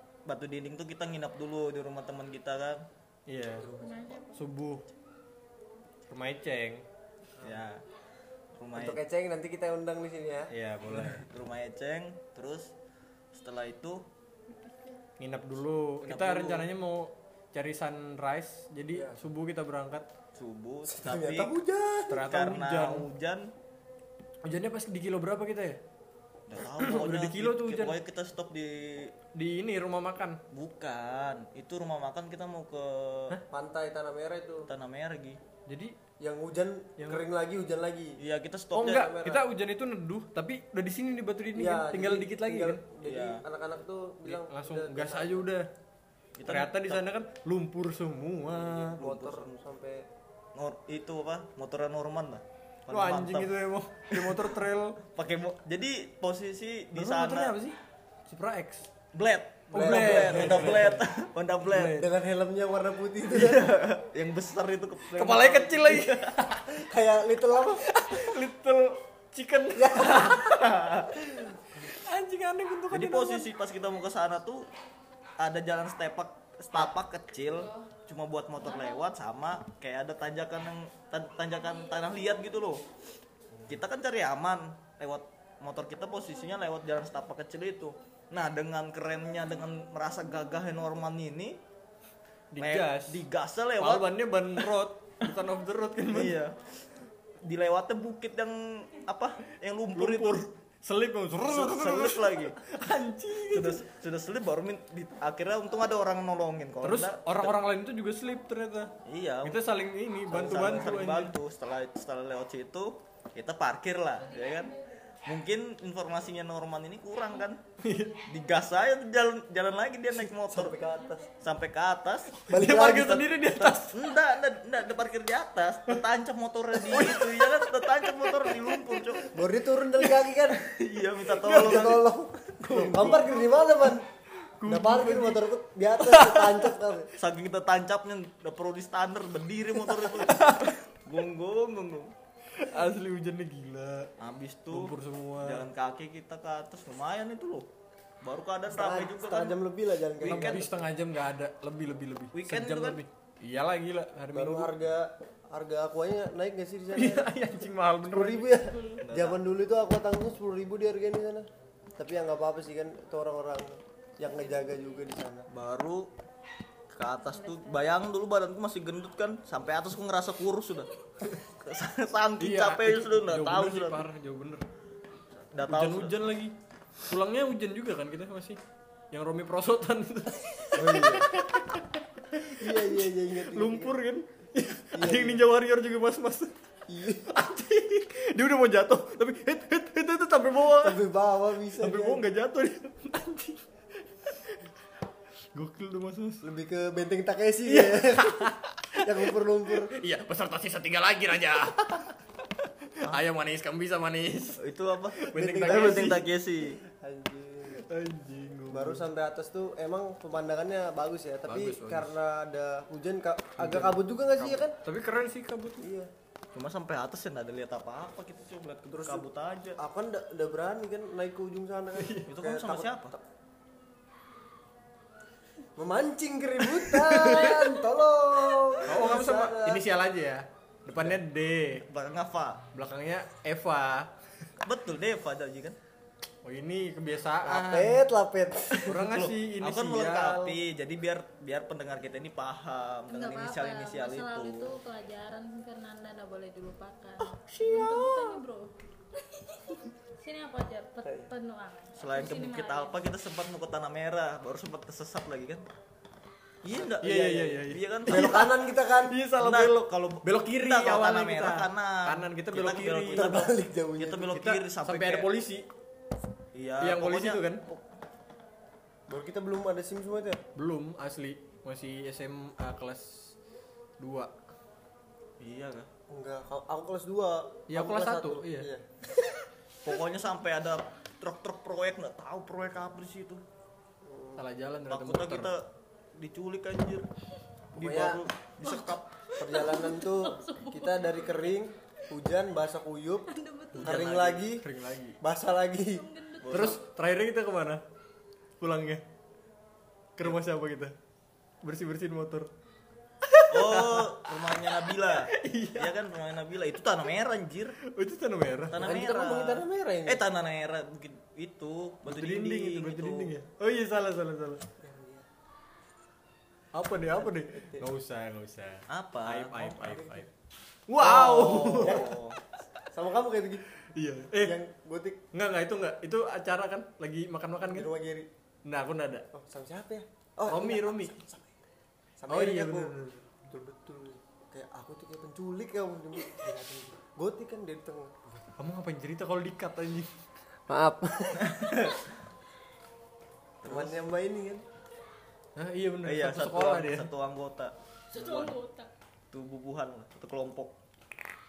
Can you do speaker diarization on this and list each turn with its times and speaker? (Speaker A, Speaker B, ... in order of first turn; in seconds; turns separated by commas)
Speaker A: 0.3-2.9, Speaker B: 3.3-3.7, Speaker C: 3.6-4.2, Speaker D: 3.8-4.5, Speaker B: 4.3-4.8, Speaker B: 6.1-6.8, Speaker A: 7.4-7.8, Speaker A: 8.6-9.0, Speaker C: 8.7-10.5, Speaker B: 10.5-11.3, Speaker A: 10.9-12.8, Speaker A: 13.3-14.1, Speaker D: 14.7-15.0, Speaker B: 15.2-20.1, Speaker A: 16.0-16.7, Speaker C: 18.9-19.2, Speaker A: 20.4-21.6, Speaker C: 20.9-22.2, Speaker B: 22.1-23.1, Speaker A: 22.2-23.5, Speaker B: 24.4-25.8, Speaker A: 26.5-29.1, Speaker B: 26.6-28.0, Speaker B: 29.3-30.4, Speaker A: 30.5-33.4, Speaker C: 33.5-34.7, Speaker A: 34.7-35.4, Speaker B: 35.7-36.0, Speaker C: 36.2-38.2, Speaker B: 37.0-37.2, Speaker A: 38.2-39.1, Speaker B: 38.7-42.8, Speaker C: 38.9-39.4, Speaker C: 41.5-45.4, Speaker A: 43.0-43.4, Speaker B: 44.2-45.7, Speaker A: 46.4-47.0, Speaker B: 46.5-49.0, Speaker C: 48.5-50.0, Speaker A: 48.8-49.6, Speaker A: 50.5-53.5, Speaker B: 52.9-55.0, Speaker A: 54.1-57.6, Speaker B: 57.0-58.9, Speaker A: 59.1-62.0, Speaker B: 59.7-61.1, Speaker C: 59.7-61.0, Speaker B: 61.6-62.1, Speaker C: 62.0-63.7, Speaker A: 63.3-66.4, Speaker B: 65.2-66.7, Speaker C: 66.7-67.9, Speaker B: 67.8-70.7, Speaker C: 69.8-70.5, Speaker A: 70.4-71.2, Speaker C: 71.1-71.8, Speaker B: 71.8-73.5, Speaker A: 72.9-74.7, Speaker A: 75.4-82.8, Speaker A: 83.7-91.6, Speaker B: 92.5-93.2, Speaker A: 92.6-94.7, Speaker B: 93.8-96.4, Speaker A: 96.1-96.9, Speaker A: 97.4-100.5, Speaker B: 99.9-103.8, Speaker A: 101.4-102.6, Speaker A: 103.5-107.6, Speaker B: 106.8-108.9, Speaker A: 109.0-109.6, Speaker B: 109.4-111.3, Speaker A: 110.3-117.6, Speaker C: 110.3-110.7, Speaker B: 117.8-118.2, Speaker A: 118.3-120.8, Speaker C: 120.2-121.3, Speaker A: 121.4-129.3, Speaker B: 122.5-124.0, Speaker C: 122.5-123.2, Speaker B: 126.8-129.2, Speaker C: 129.3-130.6, Speaker B: 130.0-130.3, Speaker A: 130.6-133.3, Speaker B: 131.4-132.0, Speaker C: 131.5-134.1, Speaker B: 134.6-135.5, Speaker C: 134.7-137.1, Speaker B: 136.0-136.7, Speaker A: 137.2-142.1, Speaker B: 139.8-140.8, Speaker B: 142.5-144.1, Speaker A: 144.2-147.7, Speaker B: 144.7-145.6, Speaker A: 148.2-149.6, Speaker C: 148.7-150.8, Speaker B: 150.2-154.7, Speaker A: 150.2-150.7, Speaker A: 152.3-153.0, Speaker C: 154.3-157.3, Speaker B: 156.9-158.5, Speaker C: 158.1-165.5, Speaker D: 158.6-159.0, Speaker A: 159.0-159.4, Speaker A: 165.5-166.1, Speaker A: 166.9-170.9, Speaker D: 167.3-167.9, Speaker A: 171.4-174.1, Speaker B: 172.4-174.6, Speaker A: 175.5-176.2, Speaker B: 175.7-178.6, Speaker B: 179.1-186.5, Speaker C: 180.7-181.3, Speaker C: 182.6-184.0, Speaker C: 184.9-185.4, Speaker C: 186.9-187.3, Speaker B: 187.2-191.0, Speaker C: 190.8-192.3, Speaker B: 191.7-193.6, Speaker B: 194.3-194.6, Speaker B: 195.5-196.4, Speaker C: 196.4-199.9, Speaker B: 197.7-204.6, Speaker A: 204.6-206.8, Speaker B: 205.1-206.3, Speaker C: 205.3-206.3, Speaker C: 206.8-207.8, Speaker B: 207.8-209.0, Speaker C: 208.7-214.8, Speaker B: 211.5-212.1, Speaker B: 213.6-215.9, Speaker C: 215.8-216.1, Speaker A: 216.5-219.8, Speaker C: 218.9-219.3, Speaker C: 219.8-223.2, Speaker B: 222.0-222.3, Speaker A: 222.3-223.1, Speaker C: 225.8-229.8, Speaker B: 226.7-227.8, Speaker B: 228.8-231.8, Speaker A: 230.9-231.2, Speaker A: 231.8-232.7, Speaker B: 232.7-234.5, Speaker A: 234.6-235.8, Speaker B: 236.4-238.0, Speaker C: 237.4-239.0, Speaker B: 238.8-240.5, Speaker A: 239.0-244.8, Speaker D: 243.1-253.0, Speaker A: 247.2-248.4, Speaker C: 251.1-251.3, Speaker A: 251.9-255.7, Speaker A: 256.6-258.5, Speaker C: 256.7-259.2, Speaker B: 257.0-263.4, Speaker A: 259.4-265.3, Speaker C: 263.1-264.5, Speaker B: 264.4-265.7, Speaker A: 266.5-267.9, Speaker B: 266.8-267.6, Speaker C: 269.1-270.4, Speaker B: 270.6-273.4, Speaker B: 274.0-274.4, Speaker A: 275.4-275.9, Speaker C: 276.1-278.8, Speaker B: 277.7-278.7, Speaker A: 279.8-283.4, Speaker C: 284.0-284.4, Speaker B: 284.4-285.5, Speaker A: 284.9-287.1, Speaker C: 287.8-288.2, Speaker A: 287.8-289.2, Speaker D: 288.6-291.6, Speaker C: 289.4-294.6, Speaker D: 293.3-293.9, Speaker B: 293.8-295.2, Speaker A: 293.9-294.5, Speaker C: 295.2-296.0, Speaker D: 295.9-296.8, Speaker A: 296.4-296.8, Speaker B: 296.5-297.8, Speaker B: 298.6-299.0, Speaker B: 300.2-300.9, Speaker B: 301.6-302.5, Speaker B: 303.2-305.9, Speaker A: 303.5-307.8, Speaker B: 307.8-308.8, Speaker A: 308.7-313.3, Speaker C: 308.8-310.2, Speaker B: 312.1-314.6, Speaker C: 314.8-315.3, Speaker B: 316.8-320.3, Speaker C: 317.1-317.9, Speaker A: 318.9-320.2, Speaker B: 320.9-322.1, Speaker C: 321.0-322.2, Speaker A: 321.0-322.4, Speaker C: 322.9-323.6, Speaker B: 323.9-324.6, Speaker C: 324.4-325.2, Speaker B: 325.3-327.9, Speaker C: 327.6-328.3, Speaker B: 328.7-329.3, Speaker C: 329.3-331.6, Speaker B: 330.5-331.1, Speaker C: 332.2-338.2, Speaker B: 332.3-333.2, Speaker B: 338.6-340.1, Speaker C: 340.7-341.9, Speaker A: 341.4-342.0, Speaker A: 343.6-344.0, Speaker C: 343.6-344.6, Speaker B: 345.6-347.1, Speaker A: 346.0-348.6, Speaker D: 348.1-348.9, Speaker A: 349.3-350.8